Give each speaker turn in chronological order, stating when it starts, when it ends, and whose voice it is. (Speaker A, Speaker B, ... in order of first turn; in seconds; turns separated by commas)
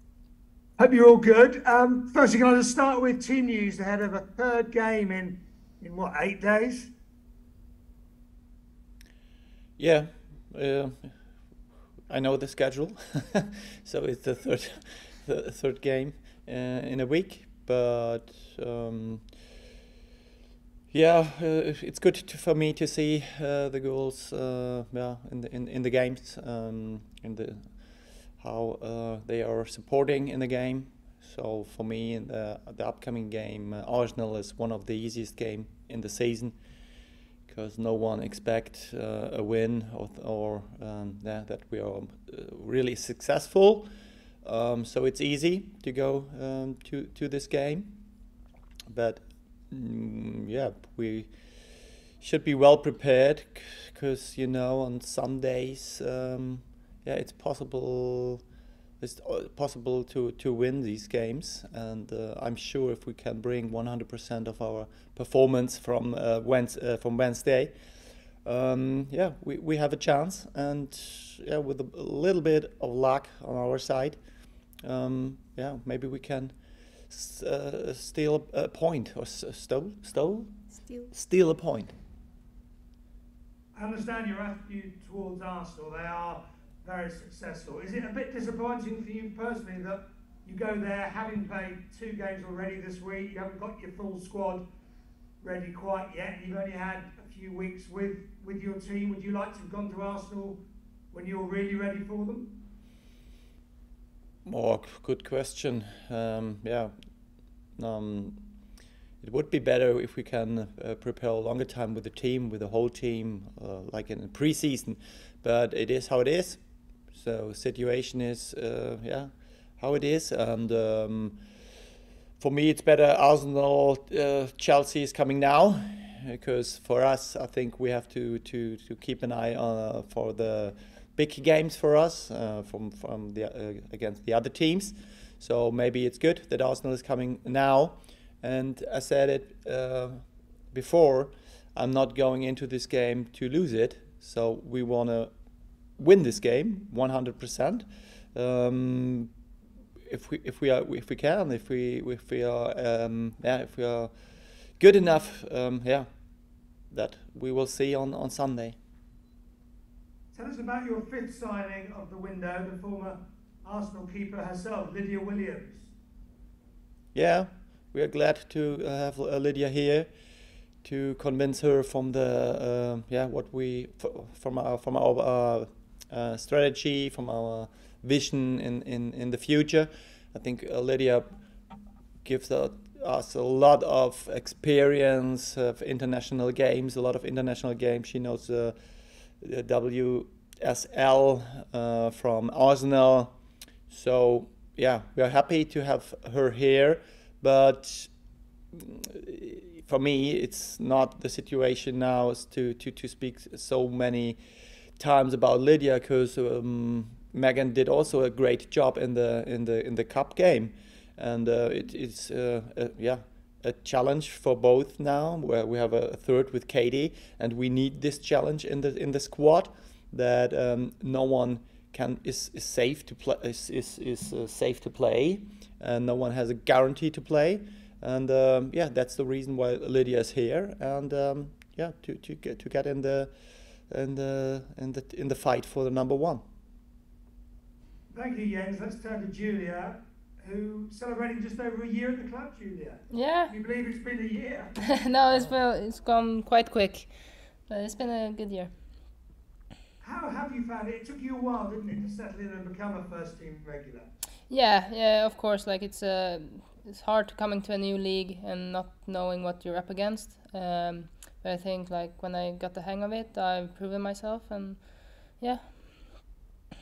Speaker A: 0.8-6.9, Speaker B: 9.8-11.2, Speaker B: 12.1-19.2, Speaker B: 20.9-36.5, Speaker B: 37.5-43.9, Speaker B: 44.4-48.0, Speaker B: 48.9-51.3, Speaker B: 52.2-58.4, Speaker B: 59.0-67.7, Speaker B: 68.5-74.2, Speaker B: 74.8-76.6, Speaker B: 77.1-81.9, Speaker A: 83.7-94.6, Speaker A: 95.4-102.5, Speaker B: 104.5-106.9, Speaker B: 107.8-108.5, Speaker B: 109.2-121.4, Speaker B: 122.4-145.3, Speaker B: 146.0-149.3, Speaker B: 150.1-154.1, Speaker B: 154.8-156.1, Speaker B: 156.9-158.8, Speaker A: 160.3-165.9, Speaker B: 167.1-170.1, Speaker B: 170.8-181.3, Speaker B: 182.2-188.8, Speaker B: 189.4-193.3, Speaker B: 193.9-198.1, Speaker B: 198.7-204.4, Speaker B: 205.0-233.3, Speaker B: 233.9-236.4, Speaker A: 238.1-244.7, Speaker C: 243.1-243.5, Speaker C: 244.8-247.1, Speaker C: 247.7-248.7, Speaker A: 250.0-254.1, Speaker C: 254.5-266.0